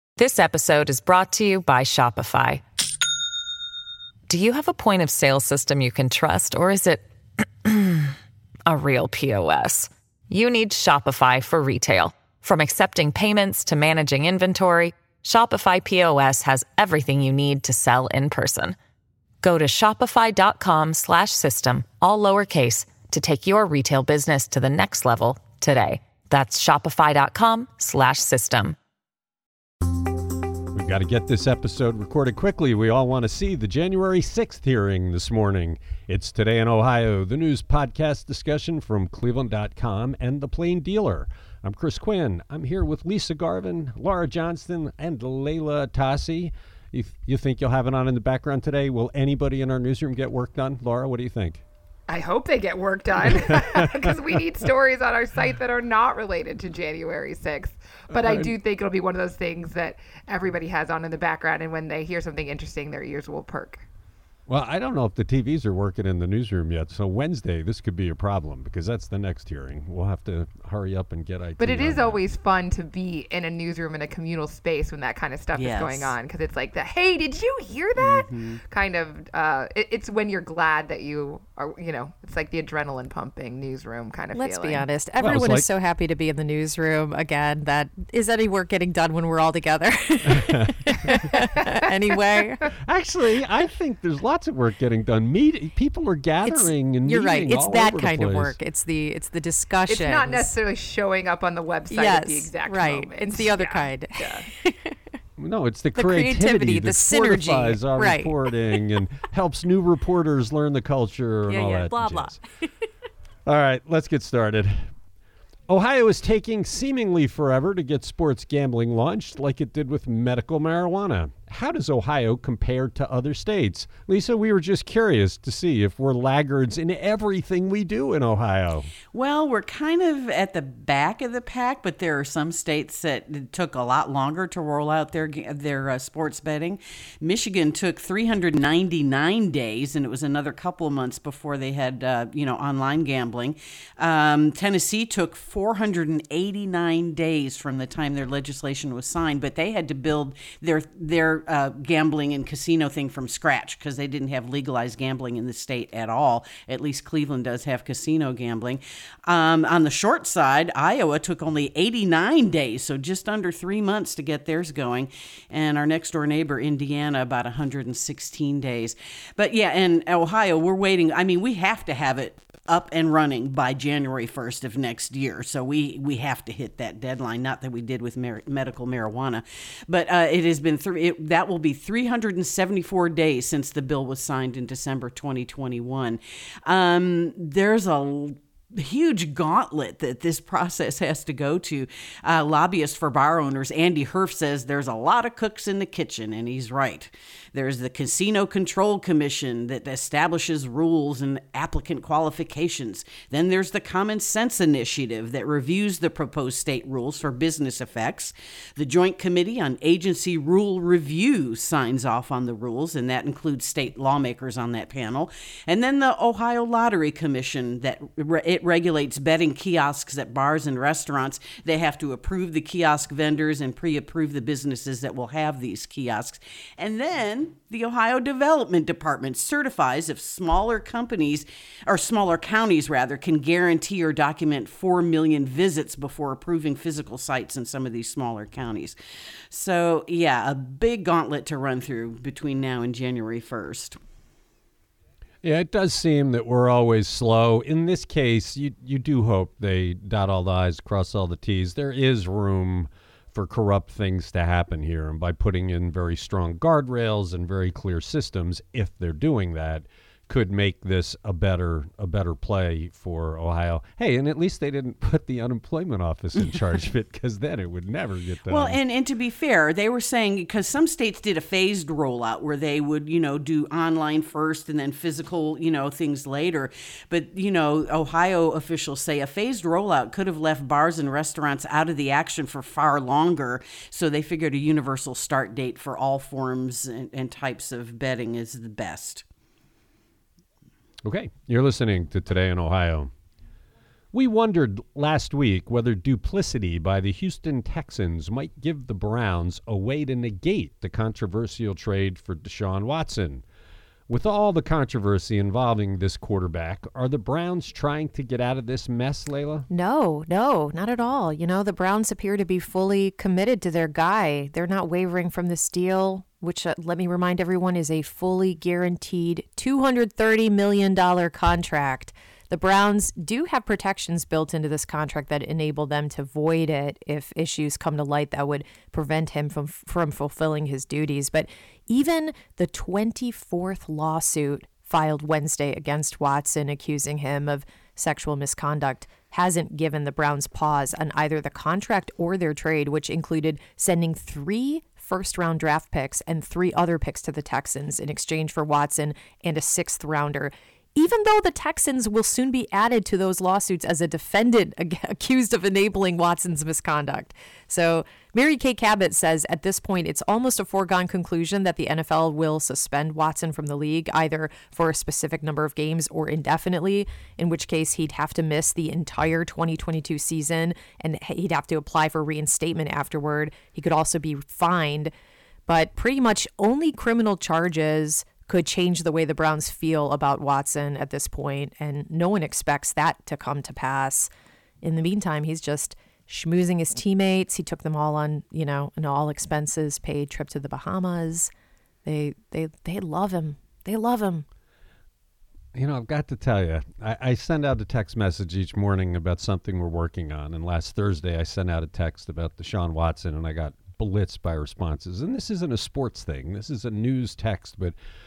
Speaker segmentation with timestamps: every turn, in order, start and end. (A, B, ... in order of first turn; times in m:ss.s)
0:00.2-0:02.6 A
0:04.3-0:07.0 A
0:07.6-0:08.2 A
0:08.7-0:18.8 A
0:19.4-0:28.8 A
0:30.7-0:51.6 B
0:52.1-1:03.9 C
0:53.2-0:54.2 B
0:58.1-0:58.5 B
1:04.5-1:12.2 B
1:11.6-1:24.9 C
1:15.6-1:16.1 D
1:18.0-1:18.6 D
1:24.3-1:32.7 E
1:25.2-1:25.7 B
1:30.3-1:31.2 B
1:31.1-1:32.7 C
1:32.8-1:38.6 B
1:36.4-1:40.5 E
1:39.9-1:44.5 C
1:41.9-1:45.0 E
1:45.4-1:52.4 B
1:46.0-1:48.8 E
1:51.5-1:52.7 E
1:53.4-1:54.9 B
1:55.7-2:08.9 B
2:09.1-3:59.0 D
3:59.5-4:04.0 D
4:05.4-4:28.8 B
4:28.5-4:49.2 D
4:51.0-4:53.1 B
4:54.1-5:03.4 B
5:04.1-5:09.7 B
5:09.7-6:15.1 E
6:15.7-6:24.3 E
6:24.8-6:31.5 E
6:32.0-6:34.5 E
6:35.7-6:48.0 B